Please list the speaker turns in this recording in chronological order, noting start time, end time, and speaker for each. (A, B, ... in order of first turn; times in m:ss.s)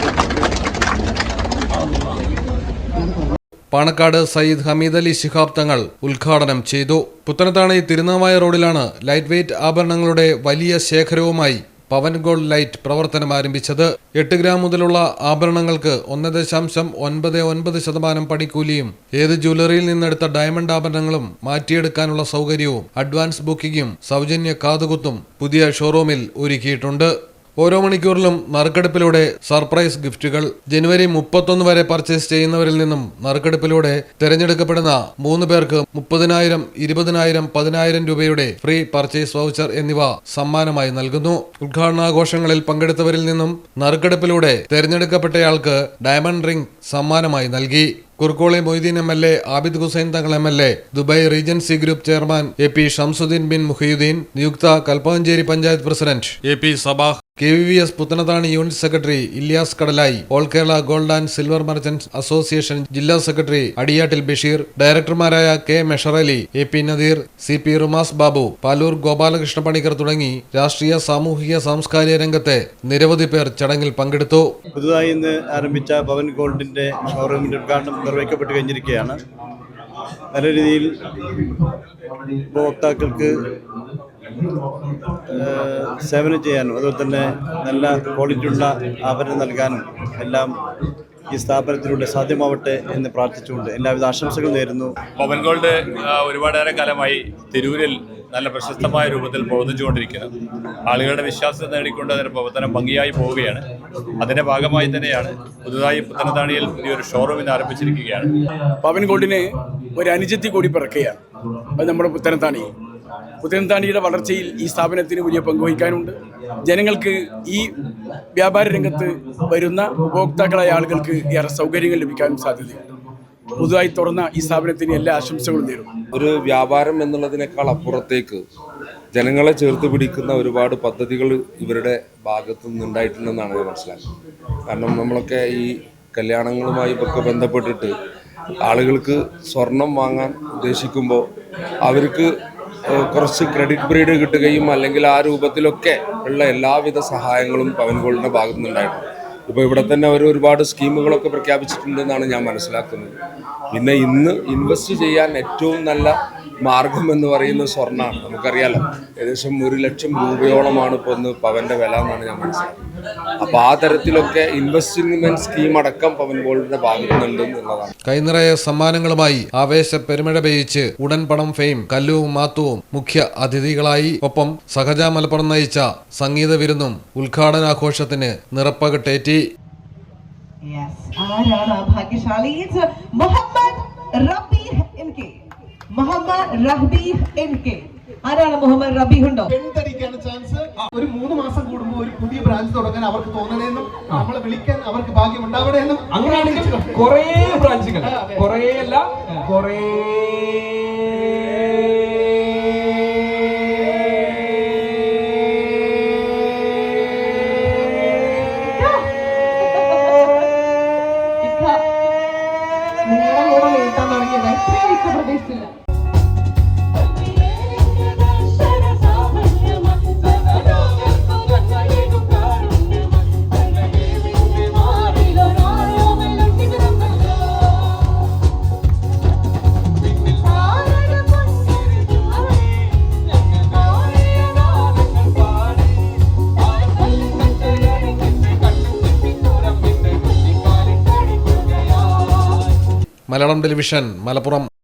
0:03.7-1:14.5 A
1:14.7-1:19.2 B
1:20.3-1:20.9 B
1:22.5-1:23.5 B
1:25.3-1:30.5 B
1:31.3-1:34.9 B
1:35.2-1:40.3 C
1:40.9-1:43.6 C
1:44.2-1:48.3 C
1:48.8-1:51.2 D
1:51.8-1:52.7 D
1:53.4-1:56.1 D
1:56.6-1:57.7 D
1:58.3-2:02.8 D
2:03.6-2:05.9 D
2:06.1-2:08.4 E
2:09.1-2:14.0 E
2:14.7-2:17.9 E
2:18.6-2:21.2 E
2:21.8-2:22.3 E
2:22.9-2:33.1 E
2:33.7-2:42.7 E
2:43.4-2:47.9 E
2:48.1-2:59.4 A
3:00.6-3:05.3 F
3:06.0-3:09.5 F
3:09.5-3:17.4 G
3:16.1-3:21.9 H
3:18.0-3:18.5 G
3:28.6-3:29.0 F
3:31.4-3:31.8 F
3:33.0-3:35.7 F
4:03.3-4:04.7 A